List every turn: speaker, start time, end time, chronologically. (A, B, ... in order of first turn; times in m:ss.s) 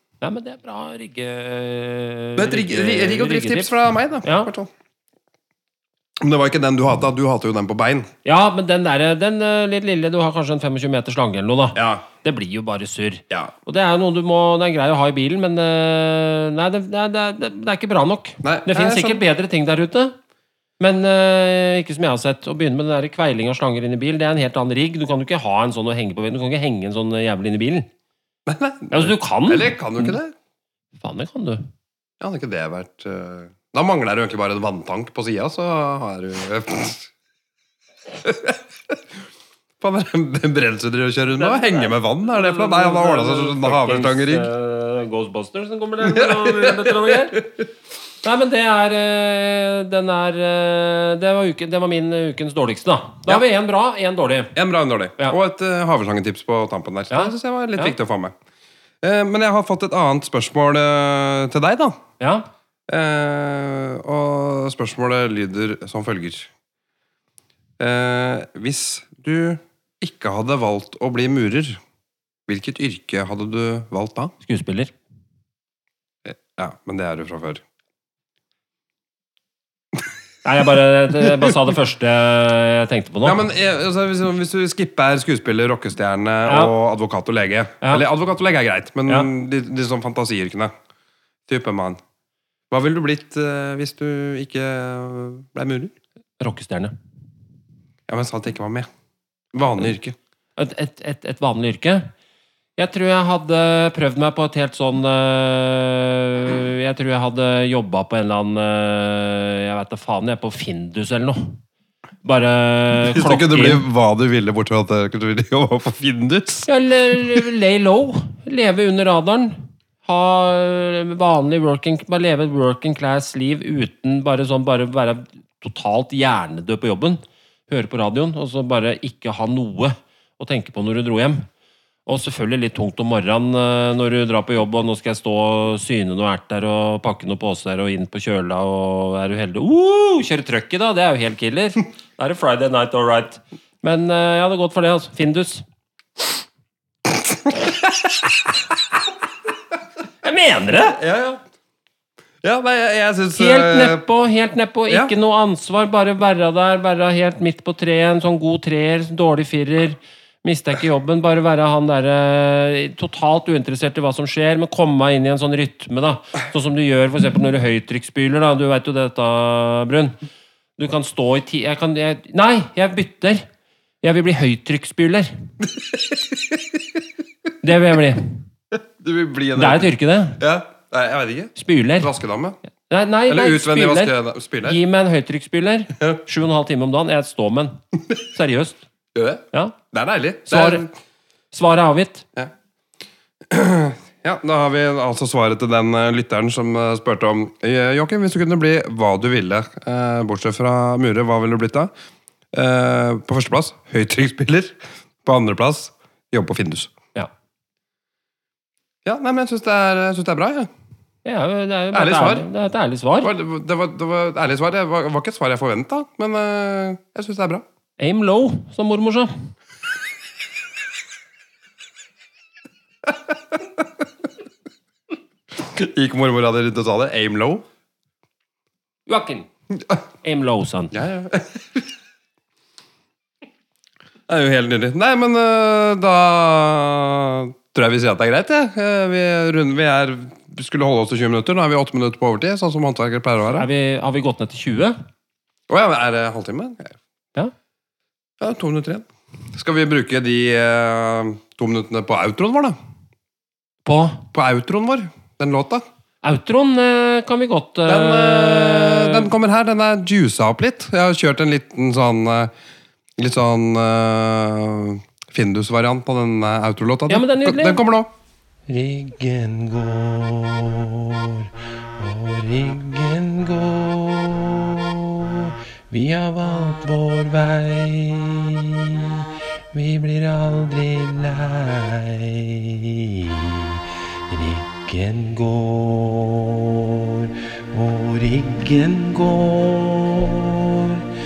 0:00.2-0:04.5 A
0:02.4-0:04.7 B
0:06.2-0:08.1 B
0:08.2-0:20.2 A
0:11.7-0:12.0 B
0:18.4-0:19.2 B
0:20.8-0:27.9 A
0:28.4-0:30.3 B
0:28.9-0:30.2 A
0:31.0-0:31.6 A
0:32.2-0:37.1 B
0:38.1-0:38.9 B
0:39.8-0:44.5 B
0:41.4-0:47.5 A
0:46.0-0:47.6 B
0:48.2-0:54.5 A
0:54.5-0:58.3 B
0:57.1-0:57.9 A
0:59.0-1:02.0 B
1:02.2-1:02.5 A
1:02.9-1:06.5 B
1:07.8-1:11.8 B
1:12.5-1:14.3 B
1:14.4-1:14.9 A
1:16.2-1:17.6 B
1:20.4-1:23.4 A
1:23.2-1:30.7 B
1:26.4-1:26.7 A
1:31.5-1:32.0 B
1:32.7-1:35.9 B
1:36.4-1:36.9 A
1:38.1-1:38.9 B
1:39.5-1:40.2 B
1:40.6-1:42.1 A
1:42.8-1:51.6 A
1:52.2-1:53.8 A
1:53.0-1:56.7 B
1:56.7-2:11.4 A
2:12.0-2:25.6 A
2:27.5-2:28.3 B
2:30.2-2:31.0 A
2:30.9-2:31.4 B
2:32.4-2:34.0 B
2:33.4-2:50.2 A
2:50.8-2:53.4 A
2:54.0-2:55.3 A
2:55.7-2:56.8 B
2:57.6-2:58.4 A
2:58.7-3:02.6 B
2:59.5-3:00.4 A
3:01.5-3:02.1 A
3:02.9-3:08.8 A
3:03.3-3:04.8 B
3:09.1-3:10.9 B
3:10.5-3:10.8 A
3:11.5-3:12.2 A
3:13.5-3:21.9 B
3:22.5-3:26.9 B
3:29.0-3:30.7 B
3:31.2-3:33.3 A
3:31.9-3:32.4 B
3:33.2-3:37.6 B
3:38.0-3:39.5 A
3:43.1-3:43.8 B
3:45.5-3:47.6 B
3:49.1-3:49.5 A
3:50.2-3:50.9 A
3:50.9-3:51.8 B
3:54.3-4:03.7 B
4:03.5-4:05.0 A
4:05.7-4:07.0 B
4:08.4-4:12.8 B
4:13.8-4:14.3 A
4:14.3-4:15.8 B
4:16.2-4:19.3 A
4:17.9-4:22.5 B
4:23.2-4:28.1 B
4:27.1-4:27.8 A
4:28.7-4:51.1 C